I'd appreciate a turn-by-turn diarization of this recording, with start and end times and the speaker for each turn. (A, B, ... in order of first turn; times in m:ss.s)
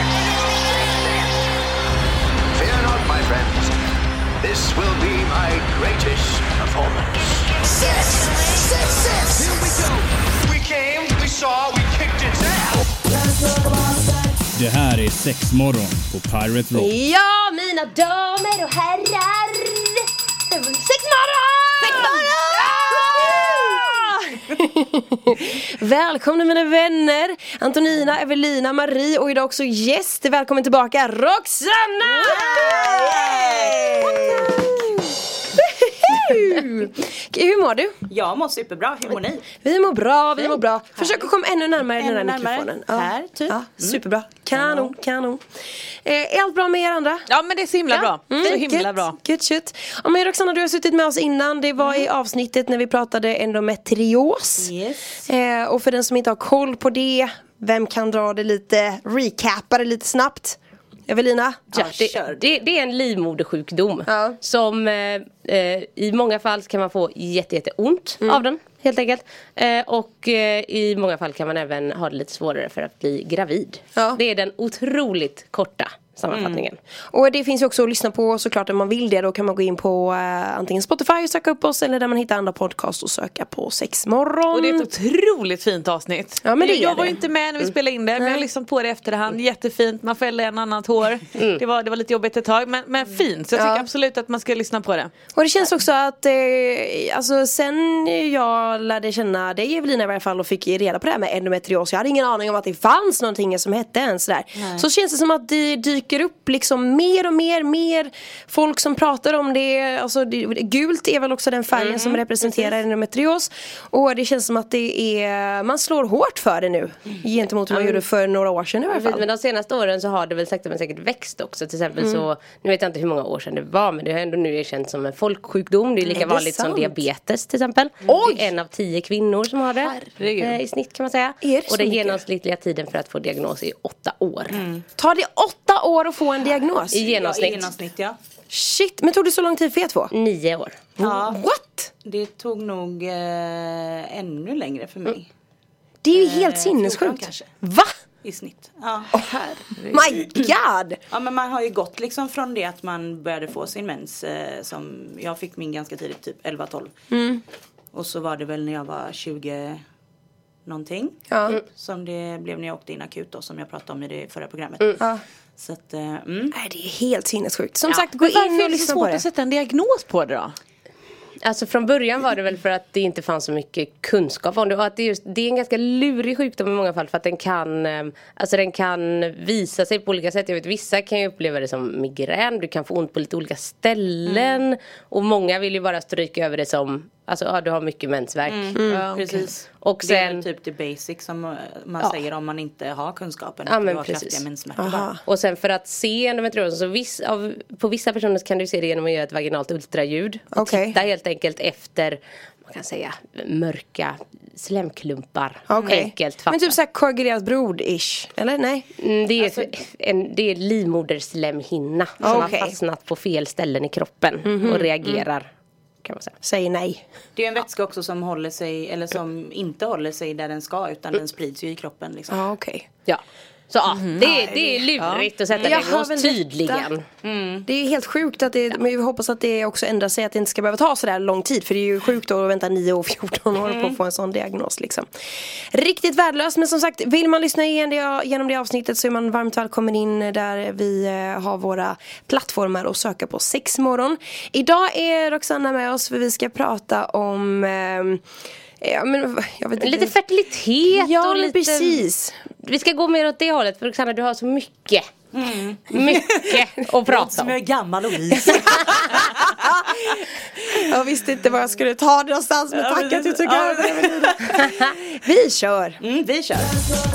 0:00.8-0:01.3 A
0:02.5-0:03.8 A
0:04.4-0:12.9 A
0:14.5-0:16.9 B
0:16.7-0:35.0 C
0:32.0-0:34.8 D
0:35.5-0:38.0 C
0:38.1-0:39.5 D
0:39.6-0:47.3 C
0:42.0-0:44.9 D
0:47.3-0:49.2 E
0:47.9-0:54.7 C
0:51.8-0:52.0 D
0:54.6-0:55.2 D
0:55.2-1:01.7 C
1:01.7-1:02.6 D
1:01.7-1:16.8 F
1:04.1-1:04.4 C
1:16.3-1:16.6 D
1:17.1-1:24.9 C
1:24.5-1:35.1 E
1:26.4-1:27.2 C
1:28.2-1:28.4 C
1:31.4-1:31.6 F
1:33.5-1:33.9 C
1:35.3-1:59.2 C
1:44.6-1:44.9 D
1:51.8-1:52.7 D
1:58.9-2:14.6 F
2:02.0-2:02.2 C
2:06.0-2:07.0 C
2:08.0-2:08.4 C
2:09.8-2:10.6 E
2:11.4-2:12.2 C
2:14.5-2:14.8 D
2:15.0-2:17.0 C
2:16.9-2:17.7 F
2:17.0-2:18.2 D
2:18.5-2:20.1 C
2:20.1-2:20.8 F
2:21.0-2:21.9 C
2:21.0-2:21.4 D
2:22.0-2:25.3 D
2:26.0-2:27.9 C
2:26.1-2:27.6 D
2:28.2-2:29.3 D
2:29.1-2:31.0 C
2:29.8-2:30.0 E
2:31.1-2:36.9 D
2:37.1-2:37.4 C
2:37.9-2:39.8 D
2:40.7-2:46.6 D
2:41.3-2:41.6 C
2:46.5-2:49.2 C
2:47.9-2:50.6 E
2:51.4-3:08.8 F
3:04.3-3:04.6 D
3:08.5-3:15.1 D
3:08.8-3:09.0 C
3:08.9-3:09.4 E
3:09.7-3:10.4 F
3:13.7-3:14.4 F
3:14.8-3:15.2 C
3:15.2-3:26.7 F
3:20.5-3:21.0 C
3:25.7-3:28.9 C
3:29.0-3:35.5 F
3:29.4-3:29.7 D
3:32.2-3:32.5 D
3:32.2-3:32.8 C
3:34.4-3:34.9 C
3:36.0-3:36.3 F
3:36.4-3:37.1 C
3:37.4-3:42.4 D
3:42.3-3:42.9 C
3:43.1-3:47.0 F
3:44.0-3:44.3 E
3:44.2-3:44.9 C
3:45.0-3:45.3 E
3:45.5-3:45.9 D
3:45.6-3:46.9 C
3:47.2-3:47.7 D
3:47.7-4:08.2 C
3:53.6-3:54.0 D
4:08.8-4:10.2 C
4:09.8-4:12.0 F
4:10.9-4:12.4 C
4:12.5-4:15.1 F
4:15.3-4:16.6 D
4:15.9-4:17.6 F
4:17.1-4:20.9 D
4:18.9-4:26.0 C
4:22.7-4:24.8 D
4:26.0-4:26.8 D